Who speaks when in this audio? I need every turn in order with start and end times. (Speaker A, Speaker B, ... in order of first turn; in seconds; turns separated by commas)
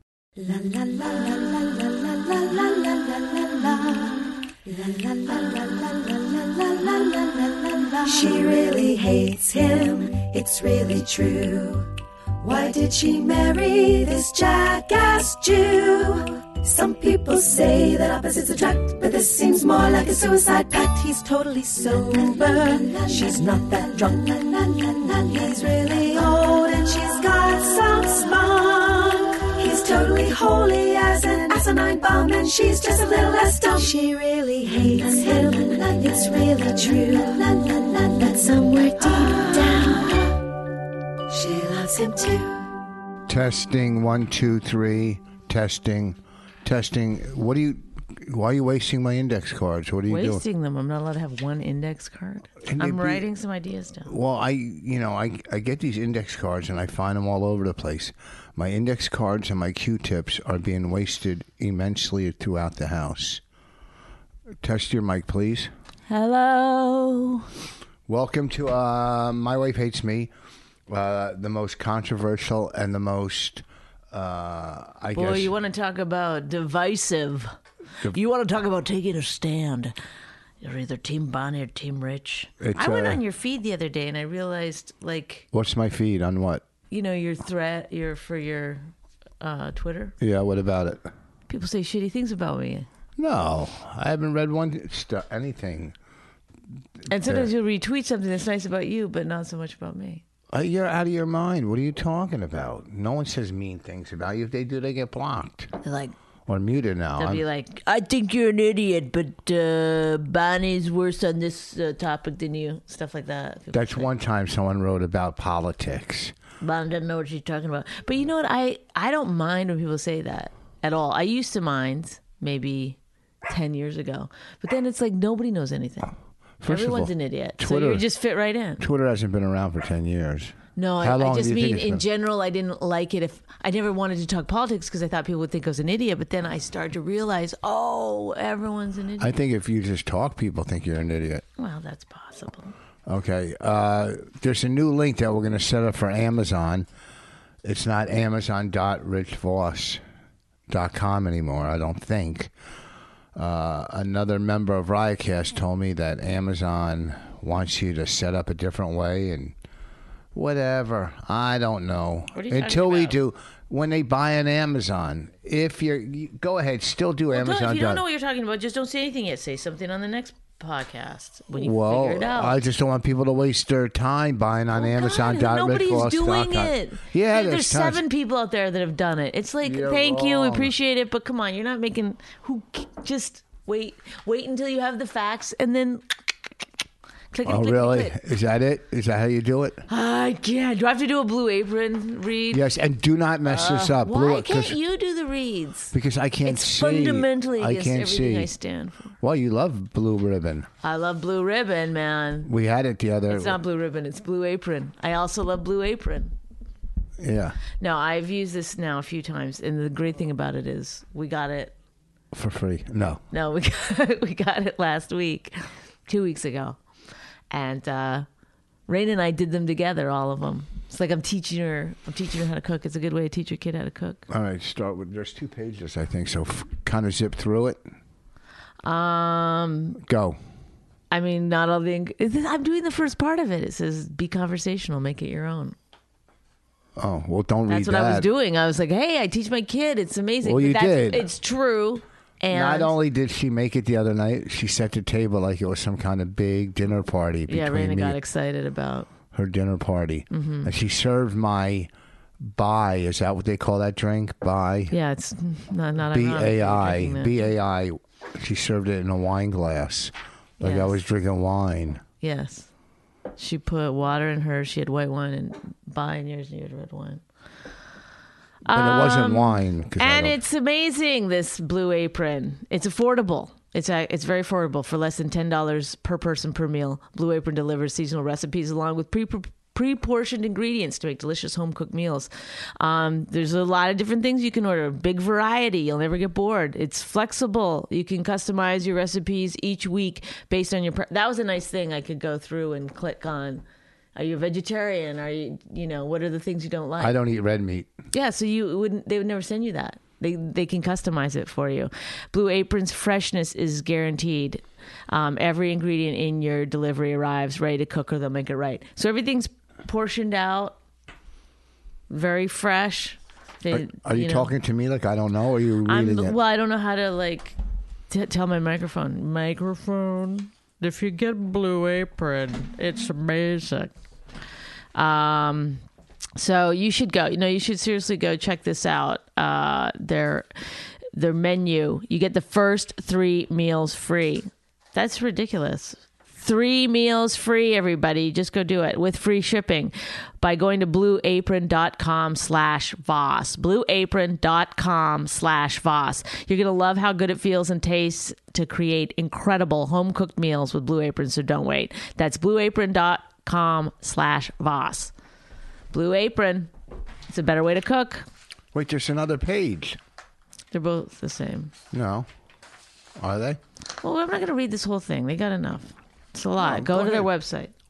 Speaker A: 0.4-40.4, Speaker A: 41.3-42.7, Speaker B: 43.3-50.4, Speaker C: 50.1-54.1, Speaker B: 52.6-53.3, Speaker B: 54.0-63.4, Speaker B: 64.6-65.7, Speaker C: 66.1-67.5, Speaker B: 68.1-70.3, Speaker B: 70.9-75.5, Speaker C: 75.1-77.5, Speaker C: 78.0-79.9, Speaker C: 80.6-85.5, Speaker B: 82.6-83.2, Speaker B: 85.5-86.6, Speaker C: 86.9-88.9, Speaker C: 89.4-90.1, Speaker B: 90.2-91.1, Speaker C: 91.5-92.9, Speaker B: 93.2-95.9, Speaker B: 97.0-97.5, Speaker C: 97.1-100.2, Speaker B: 100.5-105.7, Speaker C: 105.8-106.1, Speaker B: 106.5-107.4, Speaker C: 107.2-114.1, Speaker B: 113.7-116.3, Speaker C: 116.6-126.1, Speaker B: 126.6-128.1, Speaker C: 126.7-128.8, Speaker B: 128.8-132.0, Speaker C: 130.7-139.4, Speaker B: 139.2-141.4, Speaker C: 141.6-142.7, Speaker B: 143.1-146.9, Speaker B: 147.6-150.0, Speaker B: 150.7-152.5, Speaker B: 153.3-159.5, Speaker B: 160.3-168.0, Speaker C: 162.3-163.2, Speaker C: 167.3-172.6, Speaker B: 171.6-178.0, Speaker C: 174.7-186.1, Speaker B: 179.6-180.7, Speaker C: 187.3-188.2, Speaker B: 187.4-189.8, Speaker C: 189.9-192.6, Speaker B: 192.5-194.8, Speaker C: 193.4-199.1, Speaker B: 195.9-198.5, Speaker B: 199.2-200.7, Speaker C: 200.8-202.5, Speaker B: 202.4-203.6, Speaker C: 203.3-206.3, Speaker B: 207.2-207.6, Speaker C: 207.8-211.7, Speaker B: 212.3-213.2, Speaker C: 213.3-215.5, Speaker C: 216.1-216.8, Speaker C: 217.5-218.3, Speaker C: 218.9-224.2, Speaker B: 224.3-227.8, Speaker C: 228.8-230.0, Speaker B: 230.0-230.4, Speaker C: 231.1-235.8, Speaker B: 237.0-238.3, Speaker C: 237.7-242.9, Speaker B: 240.4-241.3, Speaker B: 242.5-248.2, Speaker C: 247.5-249.1, Speaker B: 249.3-254.9, Speaker C: 250.3-250.7, Speaker C: 254.9-257.5, Speaker B: 256.1-262.0, Speaker C: 260.6-261.0, Speaker C: 262.2-262.7, Speaker C: 263.4-267.2, Speaker C: 268.6-293.6, Speaker B: 268.7-270.4, Speaker C: 294.1-297.1, Speaker B: 297.0-297.9, Speaker C: 298.1-310.8, Speaker C: 312.1-314.5, Speaker B: 313.7-316.3, Speaker C: 315.8-317.6, Speaker C: 318.1-323.9, Speaker C: 324.9-325.8, Speaker C: 326.4-330.5, Speaker C: 331.1-355.1, Speaker C: 355.9-356.7, Speaker C: 357.3-358.2, Speaker B: 358.7-360.0, Speaker C: 360.7-361.7, Speaker B: 361.9-362.3, Speaker B: 363.2-363.6, Speaker C: 364.0-367.7, Speaker B: 366.6-367.3